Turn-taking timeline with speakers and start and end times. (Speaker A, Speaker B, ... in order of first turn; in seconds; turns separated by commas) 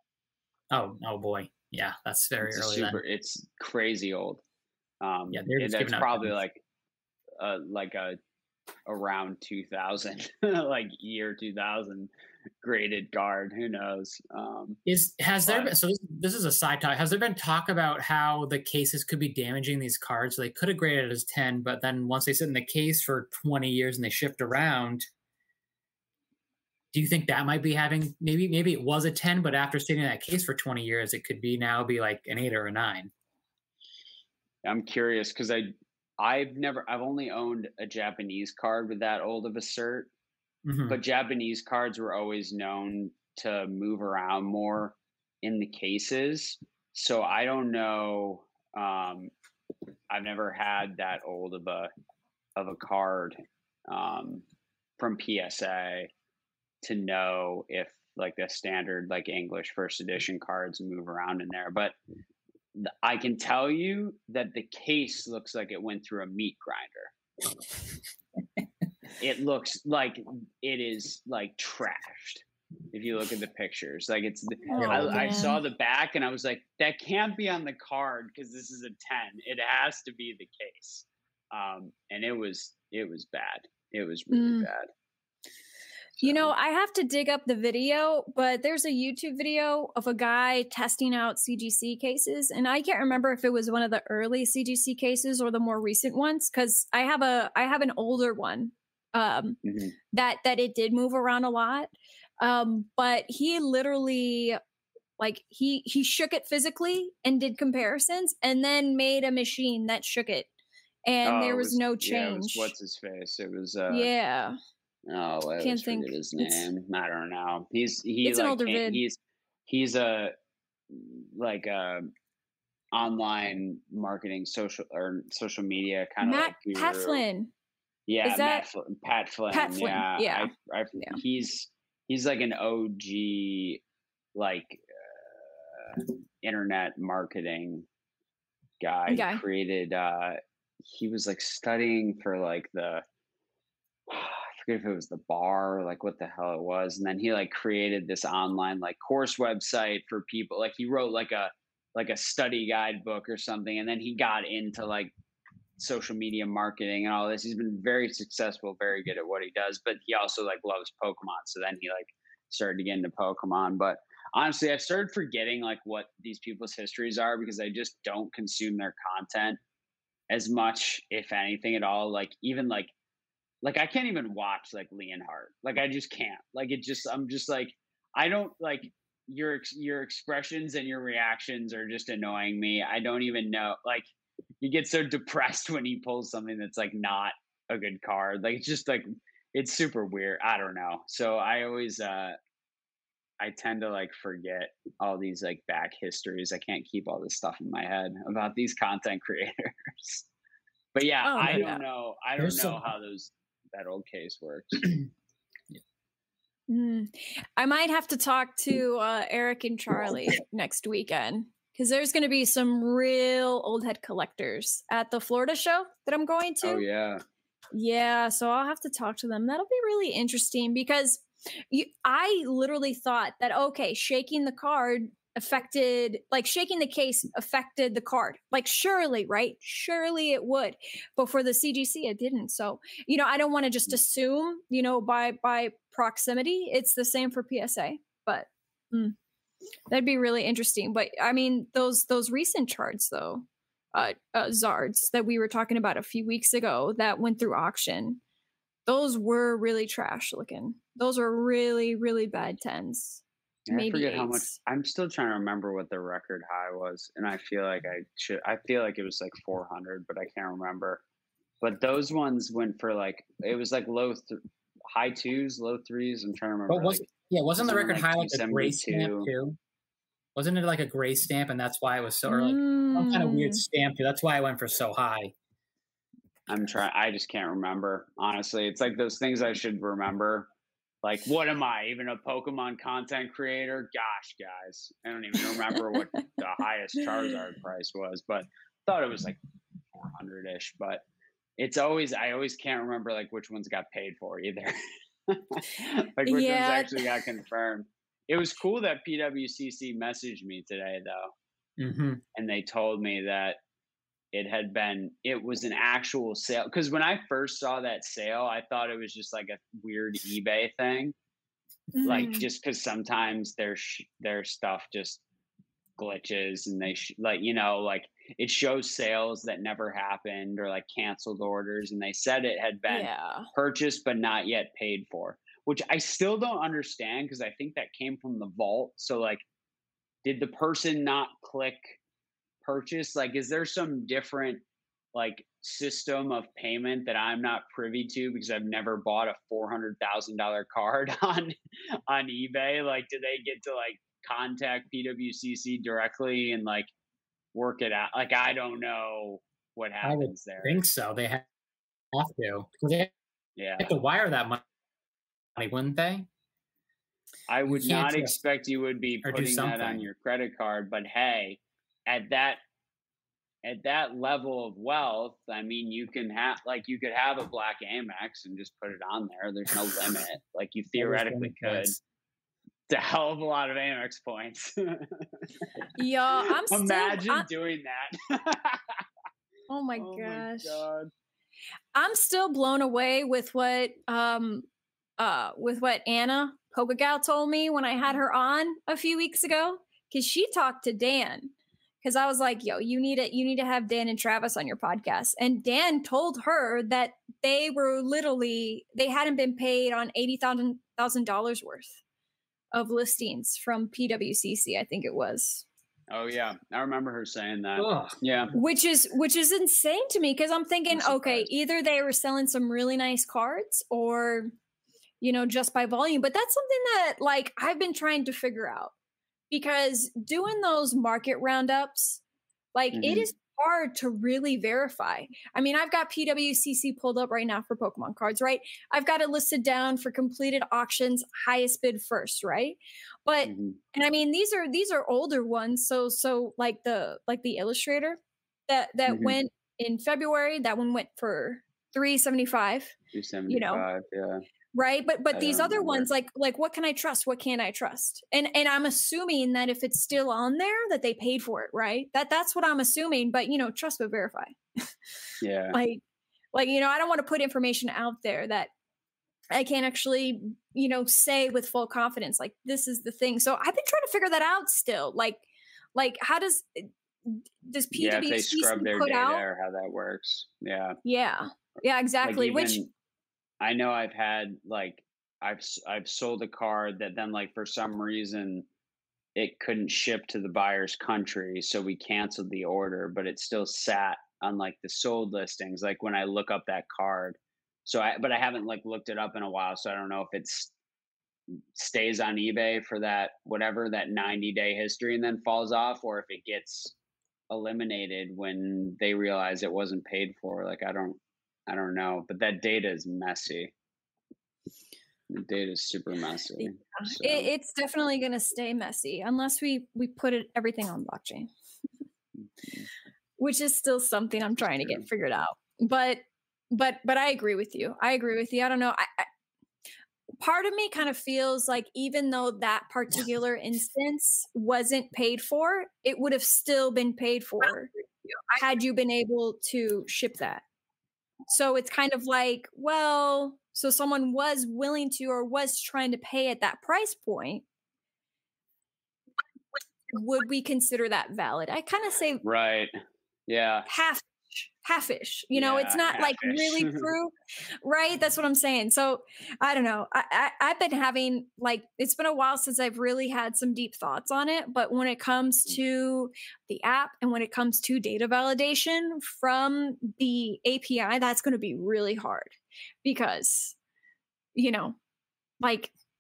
Speaker A: 0.7-3.0, Speaker B: 2.4-4.4, Speaker B: 5.0-6.6, Speaker A: 5.3-6.3, Speaker B: 7.4-8.2, Speaker B: 8.9-12.1, Speaker B: 12.6-14.8, Speaker A: 14.8-25.1, Speaker B: 15.4-15.7, Speaker A: 26.9-33.1, Speaker B: 34.6-40.1, Speaker A: 40.6-41.0, Speaker B: 40.9-49.3, Speaker B: 50.1-51.9, Speaker B: 52.5-54.4, Speaker B: 55.0-56.1, Speaker B: 56.8-62.0, Speaker B: 62.7-67.1, Speaker B: 69.2-84.9, Speaker C: 74.7-75.6, Speaker A: 74.8-75.5, Speaker C: 84.3-84.7, Speaker B: 86.2-86.5, Speaker C: 86.2-99.6, Speaker B: 99.6-99.9, Speaker C: 100.1-104.6, Speaker C: 105.2-110.5, Speaker C: 111.0-112.7, Speaker B: 111.2-114.1, Speaker C: 113.9-114.5, Speaker B: 115.1-120.3, Speaker C: 115.6-116.7, Speaker C: 118.2-119.0, Speaker B: 120.9-122.1, Speaker B: 122.9-127.2, Speaker C: 126.2-127.5, Speaker B: 128.1-133.8, Speaker C: 128.2-128.7, Speaker C: 129.5-131.2, Speaker B: 134.3-137.8, Speaker B: 138.8-143.0, Speaker C: 139.1-139.4, Speaker B: 144.1-155.1, Speaker B: 155.8-169.6, Speaker B: 170.3-172.9, Speaker B: 173.6-184.1, Speaker B: 184.6-192.4, Speaker B: 193.4-200.2, Speaker B: 200.9-205.0, Speaker C: 201.2-201.8, Speaker A: 202.4-202.8, Speaker C: 206.7-216.8, Speaker B: 216.6-217.2, Speaker C: 217.7-239.1, Speaker C: 239.9-248.2, Speaker C: 248.8-254.5, Speaker B: 253.7-261.0, Speaker B: 261.6-264.4, Speaker B: 264.9-269.3, Speaker A: 266.7-269.6, Speaker A: 270.4-275.3, Speaker C: 272.3-273.6, Speaker B: 276.5-280.5, Speaker B: 281.0-289.4, Speaker B: 290.0-291.0, Speaker B: 291.6-294.8, Speaker B: 295.3-301.3, Speaker C: 296.2-296.9, Speaker A: 301.8-302.2, Speaker B: 302.3-303.6, Speaker B: 304.3-311.1, Speaker C: 311.9-312.4, Speaker B: 312.0-315.2, Speaker B: 316.0-329.4, Speaker C: 322.9-323.5, Speaker B: 330.2-332.0, Speaker B: 332.6-334.6, Speaker B: 335.1-341.5, Speaker B: 342.1-346.9, Speaker B: 347.5-350.8, Speaker A: 350.0-351.4, Speaker A: 352.1-353.1, Speaker B: 353.6-353.9, Speaker A: 353.8-354.6, Speaker A: 355.6-356.3, Speaker B: 357.5-362.6, Speaker A: 357.7-358.3, Speaker A: 359.2-360.1, Speaker B: 363.6-371.9, Speaker A: 370.9-372.0, Speaker B: 372.9-375.6, Speaker C: 375.9-377.4, Speaker B: 376.6-379.0, Speaker C: 379.7-380.8, Speaker B: 380.0-381.1, Speaker C: 381.9-384.7, Speaker C: 385.2-402.0, Speaker C: 402.7-405.6, Speaker B: 406.1-408.5, Speaker A: 407.8-408.2, Speaker C: 408.5-414.5, Speaker B: 410.9-411.5, Speaker C: 415.2-418.9, Speaker C: 419.5-422.2, Speaker C: 422.7-442.9, Speaker B: 422.9-423.2, Speaker B: 433.4-433.8, Speaker B: 439.1-439.4, Speaker B: 443.1-444.4, Speaker C: 443.5-443.9, Speaker C: 444.7-454.9, Speaker B: 445.3-446.1, Speaker B: 455.4-455.8, Speaker C: 455.7-456.0, Speaker C: 456.5-458.7, Speaker C: 459.5-465.4, Speaker C: 465.9-469.4, Speaker B: 467.9-471.0, Speaker C: 471.0-472.8, Speaker B: 472.2-472.9, Speaker B: 473.6-478.6, Speaker B: 479.4-490.7, Speaker B: 491.7-496.9, Speaker B: 497.5-503.7, Speaker B: 505.3-507.5, Speaker C: 507.0-511.5, Speaker C: 513.4-519.3, Speaker C: 520.4-527.9, Speaker C: 528.5-530.6, Speaker C: 531.5-537.6, Speaker C: 540.1-542.4, Speaker B: 542.4-542.9, Speaker B: 543.5-543.9, Speaker C: 543.9-563.8, Speaker B: 545.5-547.1, Speaker C: 564.5-565.0, Speaker C: 565.6-565.9